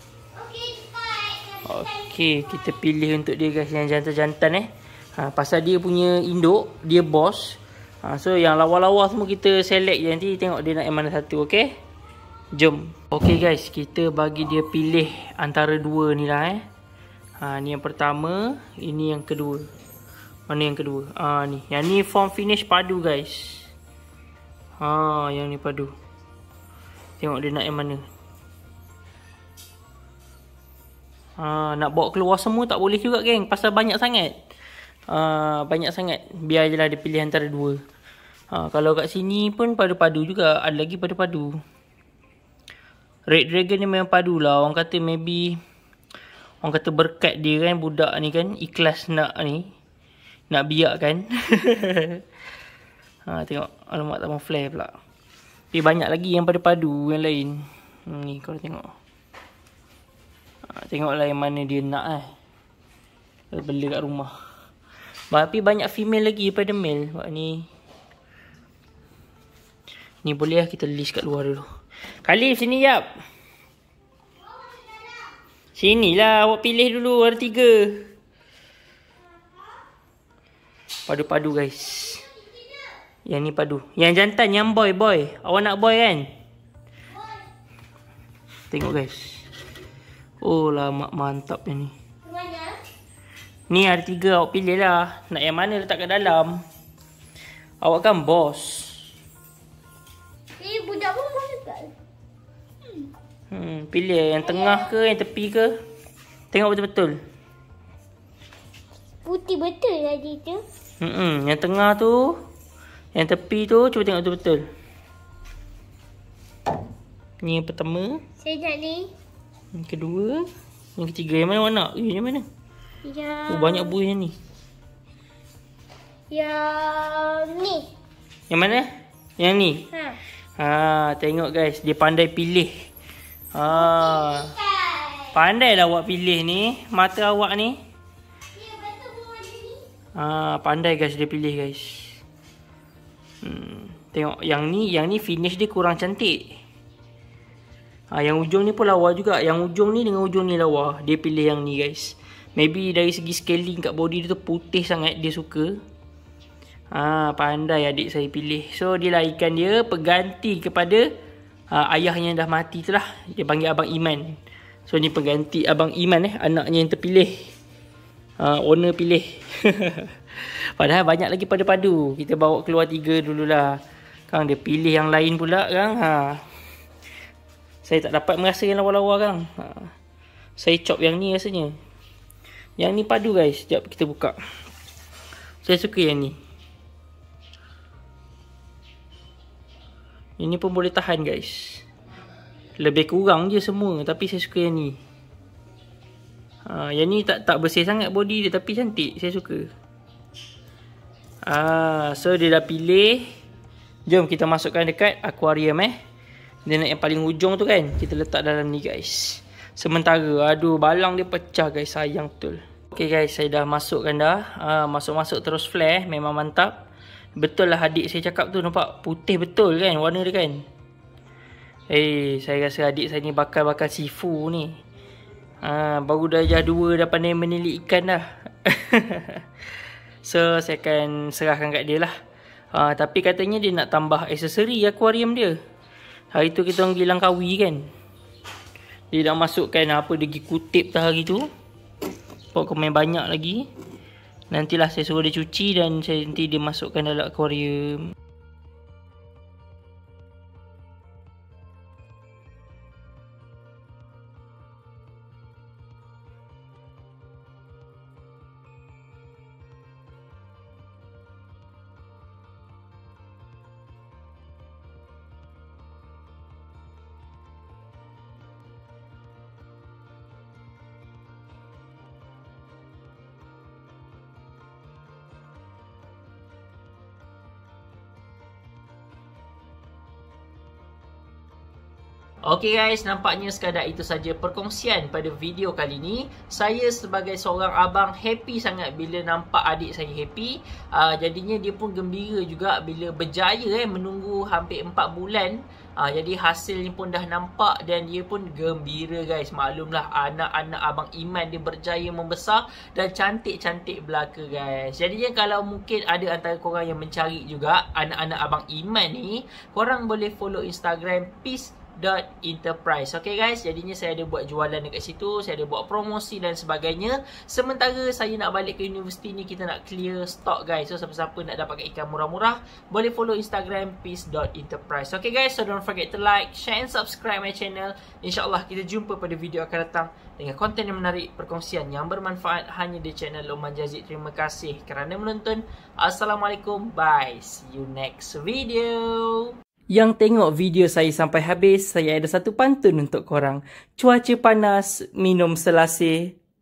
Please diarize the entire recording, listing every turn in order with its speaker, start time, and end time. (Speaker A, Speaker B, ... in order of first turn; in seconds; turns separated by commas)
Speaker A: 0.3-2.7, Speaker B: 1.7-11.7, Speaker B: 12.5-16.6, Speaker B: 17.4-19.7, Speaker B: 20.5-23.7, Speaker B: 24.8-25.9, Speaker B: 27.2-28.0, Speaker B: 31.4-34.3, Speaker B: 35.1-37.8, Speaker B: 38.5-41.5, Speaker B: 43.3-45.6, Speaker B: 46.6-49.7, Speaker B: 50.5-52.2, Speaker B: 53.3-54.9, Speaker B: 55.7-58.9, Speaker B: 60.7-62.3, Speaker B: 63.5-64.3, Speaker B: 65.3-67.7, Speaker B: 70.2-71.7, Speaker B: 72.2-73.1, Speaker A: 74.4-75.4, Speaker B: 75.8-78.1, Speaker A: 79.4-79.7, Speaker B: 81.1-82.2, Speaker A: 81.7-82.9, Speaker B: 83.3-86.3, Speaker A: 87.1-87.5, Speaker B: 88.7-89.5, Speaker B: 90.4-91.9, Speaker A: 92.2-92.8, Speaker B: 93.7-96.6, Speaker B: 97.8-99.0, Speaker A: 100.6-101.9, Speaker B: 103.5-105.7, Speaker A: 104.4-105.0, Speaker B: 106.5-107.2, Speaker A: 109.2-110.6, Speaker B: 111.0-112.4, Speaker B: 113.1-114.6, Speaker B: 117.4-118.2, Speaker A: 118.4-119.1, Speaker B: 119.7-122.5, Speaker A: 123.0-124.0, Speaker B: 123.5-124.3, Speaker A: 126.3-127.9, Speaker B: 128.5-129.9, Speaker A: 129.9-130.2, Speaker B: 130.6-132.7, Speaker B: 133.5-134.5, Speaker A: 133.7-135.4, Speaker B: 135.3-137.8, Speaker A: 138.6-139.8, Speaker B: 140.2-142.2, Speaker B: 143.4-146.6, Speaker B: 148.1-155.7, Speaker B: 156.9-161.1, Speaker B: 161.7-164.4, Speaker B: 164.9-167.4, Speaker B: 168.4-170.1, Speaker B: 170.8-173.7, Speaker B: 174.3-176.4, Speaker B: 177.8-179.9, Speaker B: 180.6-181.8, Speaker B: 182.8-184.4, Speaker B: 185.6-186.3, Speaker B: 190.4-191.8, Speaker B: 192.8-195.0, Speaker B: 196.7-199.7, Speaker B: 201.4-203.2, Speaker B: 204.1-205.9, Speaker B: 206.7-216.8, Speaker B: 217.4-220.6, Speaker B: 221.9-224.8, Speaker B: 225.6-229.4, Speaker B: 230.2-232.1, Speaker B: 232.7-235.6, Speaker B: 236.3-237.8, Speaker B: 239.1-241.5, Speaker B: 242.5-243.7, Speaker B: 244.5-248.1, Speaker B: 282.5-346.4